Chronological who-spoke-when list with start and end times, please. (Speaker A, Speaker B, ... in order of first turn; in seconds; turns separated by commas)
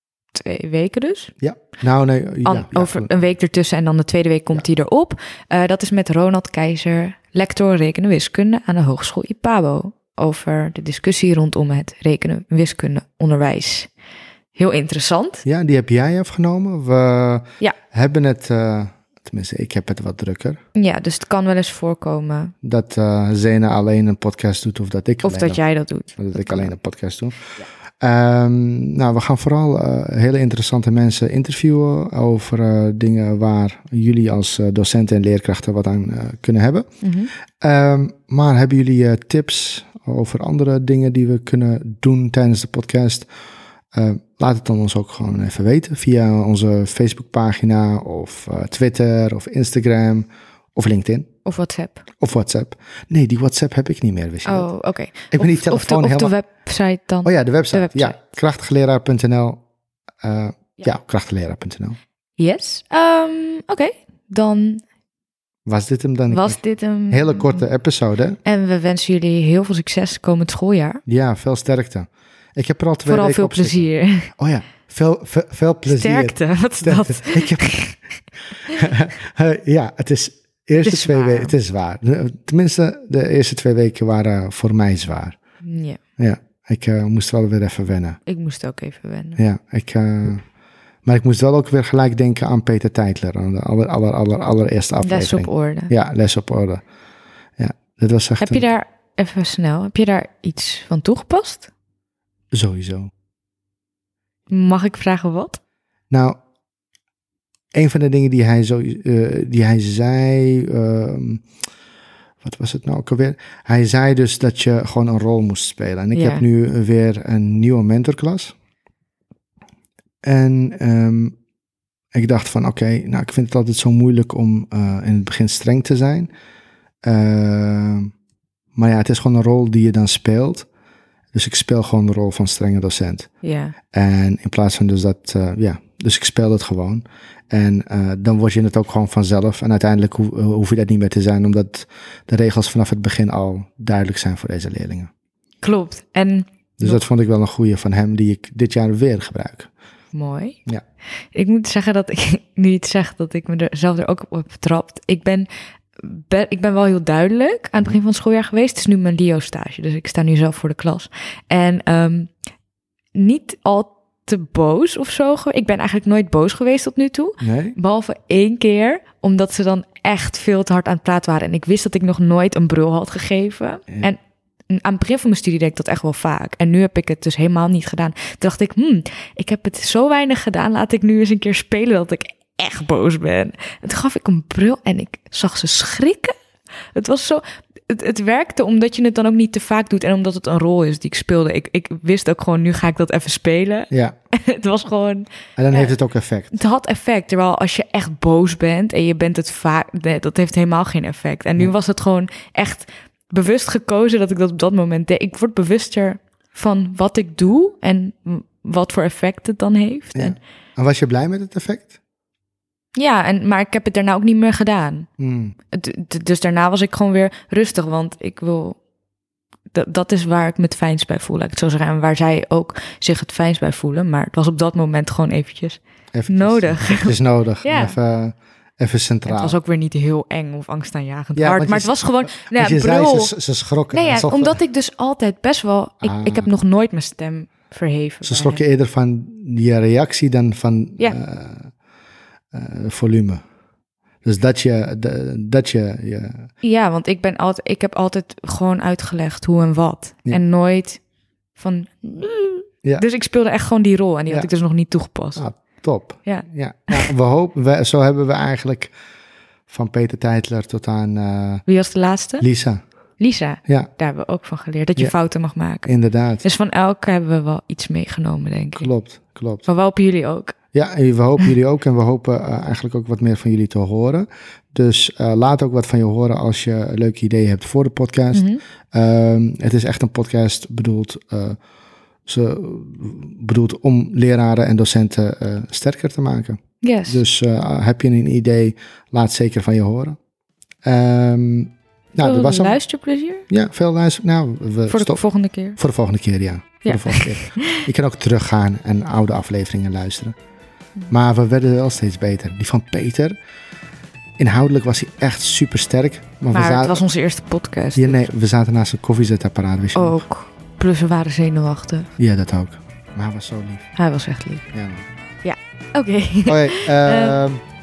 Speaker A: 0.3-1.3, Speaker B: 1.4-3.1, Speaker A: 2.5-13.9, Speaker A: 14.6-15.4, Speaker B: 15.4-20.6, Speaker A: 20.8-22.5, Speaker B: 22.6-25.6, Speaker A: 25.2-26.7, Speaker B: 26.2-27.5, Speaker B: 28.0-36.9, Speaker A: 37.0-37.3, Speaker B: 37.6-43.3, Speaker B: 43.9-51.3, Speaker A: 51.5-52.0, Speaker B: 52.2-54.7, Speaker A: 54.5-58.3, Speaker B: 55.3-56.4, Speaker B: 57.2-59.6, Speaker B: 60.2-62.0, Speaker A: 62.4-64.8, Speaker B: 65.7-68.4, Speaker A: 66.3-67.6, Speaker A: 68.4-71.0, Speaker B: 71.1-77.8, Speaker A: 73.1-74.3, Speaker A: 75.9-78.0, Speaker B: 78.7-85.4, Speaker A: 80.8-81.5, Speaker A: 85.6-86.0, Speaker B: 86.2-88.2, Speaker A: 88.3-89.4, Speaker B: 89.4-90.4, Speaker B: 91.0-96.8, Speaker A: 95.0-95.9, Speaker B: 97.6-98.7, Speaker A: 98.4-101.7, Speaker B: 102.5-103.1, Speaker A: 104.5-105.6, Speaker B: 106.1-106.4, Speaker B: 107.7-111.5, Speaker B: 112.4-118.5, Speaker A: 116.2-116.4, Speaker B: 120.2-121.4, Speaker B: 122.1-126.3, Speaker B: 127.0-128.1, Speaker B: 128.8-130.7, Speaker B: 131.3-133.3, Speaker A: 133.4-133.8, Speaker B: 133.9-145.1, Speaker A: 145.6-147.0, Speaker B: 146.8-149.7, Speaker A: 150.1-150.6, Speaker A: 151.3-155.5, Speaker A: 156.0-162.3, Speaker A: 163.2-174.2, Speaker B: 167.4-167.8, Speaker A: 174.7-186.3, Speaker A: 186.9-195.9, Speaker B: 193.9-194.2, Speaker B: 195.6-196.5, Speaker A: 196.5-210.4, Speaker B: 210.2-212.0, Speaker A: 213.0-215.1, Speaker B: 215.2-215.6, Speaker A: 215.7-218.8, Speaker A: 219.7-228.0, Speaker B: 226.1-229.6, Speaker A: 229.3-233.3, Speaker B: 231.4-234.6, Speaker A: 233.9-238.6, Speaker B: 236.0-236.5, Speaker B: 238.2-241.7, Speaker B: 242.5-243.4, Speaker B: 244.2-246.5, Speaker A: 246.6-251.0, Speaker A: 251.6-255.4, Speaker B: 255.4-258.9, Speaker A: 256.2-257.1, Speaker B: 259.7-261.7, Speaker A: 261.7-262.5, Speaker B: 262.4-262.8, Speaker A: 263.2-265.9, Speaker B: 265.9-266.4, Speaker A: 266.4-268.9, Speaker B: 268.8-269.7, Speaker A: 269.7-270.6, Speaker B: 270.7-281.6, Speaker A: 278.3-278.6, Speaker B: 282.3-290.2, Speaker A: 286.8-287.2, Speaker B: 290.9-292.8, Speaker A: 292.2-293.4, Speaker B: 293.5-295.2, Speaker A: 294.9-295.8, Speaker B: 295.8-300.4, Speaker A: 296.9-297.8, Speaker B: 301.1-303.4, Speaker B: 304.4-307.0, Speaker A: 306.5-308.3, Speaker B: 308.0-310.2, Speaker A: 309.9-312.1, Speaker B: 312.2-313.9, Speaker A: 314.0-314.7, Speaker B: 314.7-315.1, Speaker A: 315.4-317.4, Speaker B: 316.5-317.6